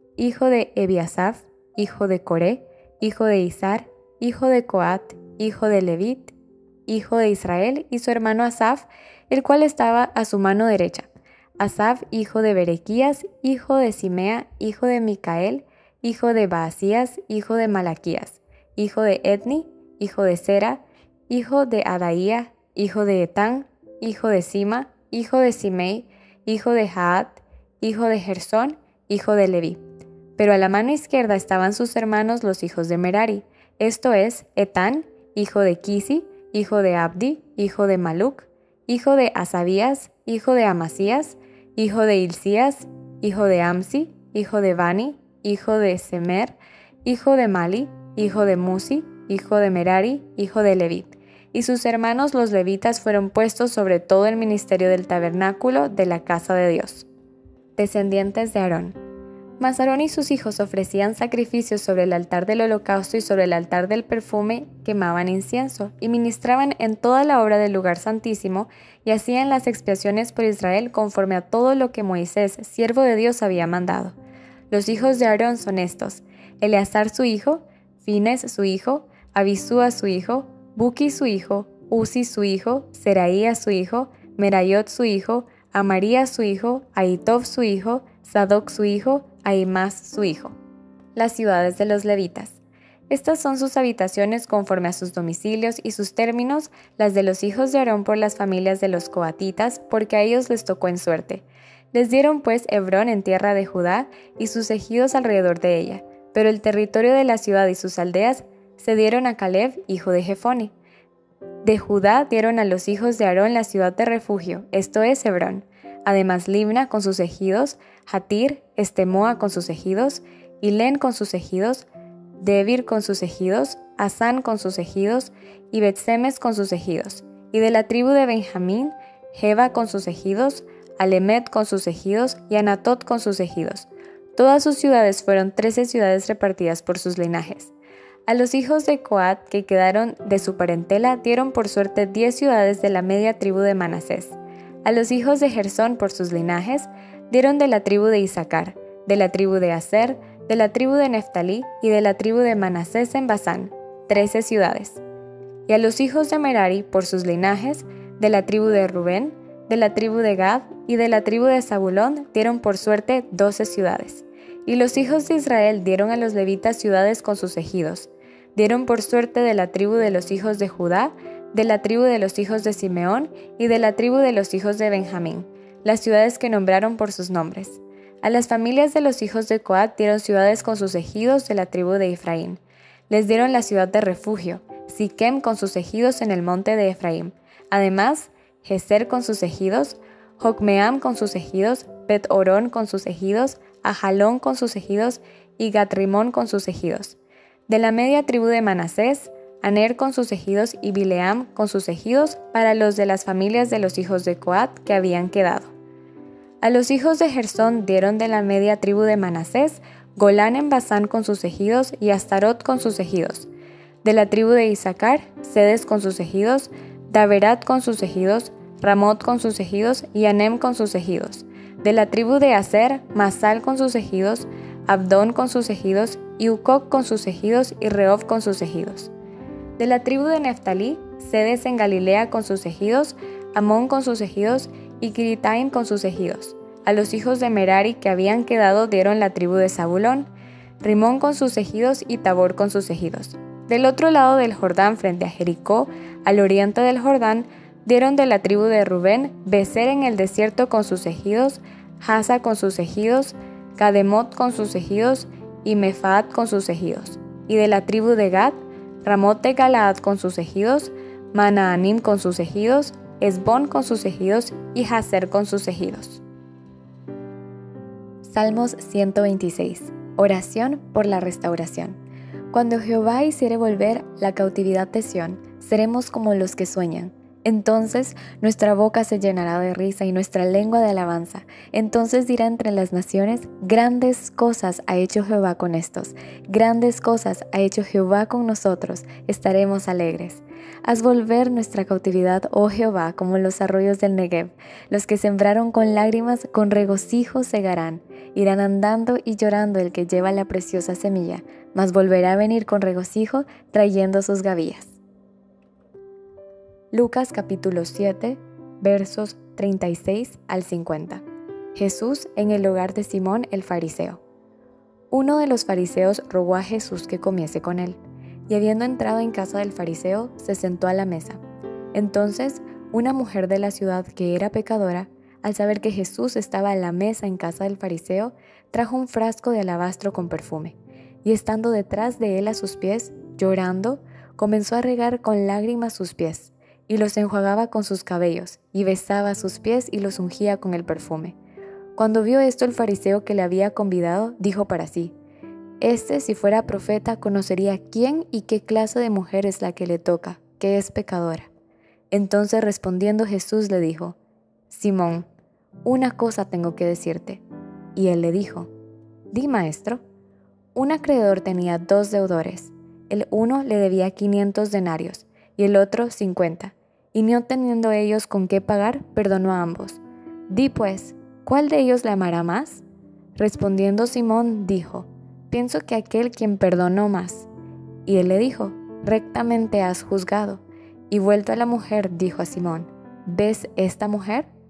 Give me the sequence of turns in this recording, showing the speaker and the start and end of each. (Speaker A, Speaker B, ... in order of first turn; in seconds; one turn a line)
Speaker A: 0.2-6.3
Speaker A: 6.9-29.8
Speaker A: 30.4-57.1
Speaker A: 57.8-59.0
Speaker A: 59.6-74.2
Speaker A: 74.7-90.5
Speaker A: 91.1-92.6
Speaker A: 93.1-110.7
Speaker A: 111.6-121.9
Speaker A: 122.4-137.7
Speaker A: 138.3-155.0
Speaker A: 155.7-197.2
Speaker A: 197.7-205.7
Speaker A: 206.6-213.5
Speaker A: 214.0-229.1
Speaker A: 229.8-240.3
Speaker A: 240.8-266.2
Speaker A: 268.2-272.0
Speaker A: 272.5-305.0
Speaker A: 306.9-311.2
Speaker A: 311.8-314.2
Speaker A: 315.1-321.4
Speaker A: 321.9-341.4
Speaker A: 341.9-345.1
Speaker A: 345.8-351.5
Speaker A: 352.1-354.2
Speaker A: 354.7-355.3
Speaker A: 355.9-357.4
Speaker A: 357.9-358.7
Speaker A: 359.3-360.0
Speaker A: 360.8-372.8
Speaker A: 373.4-377.5
Speaker A: 378.1-384.5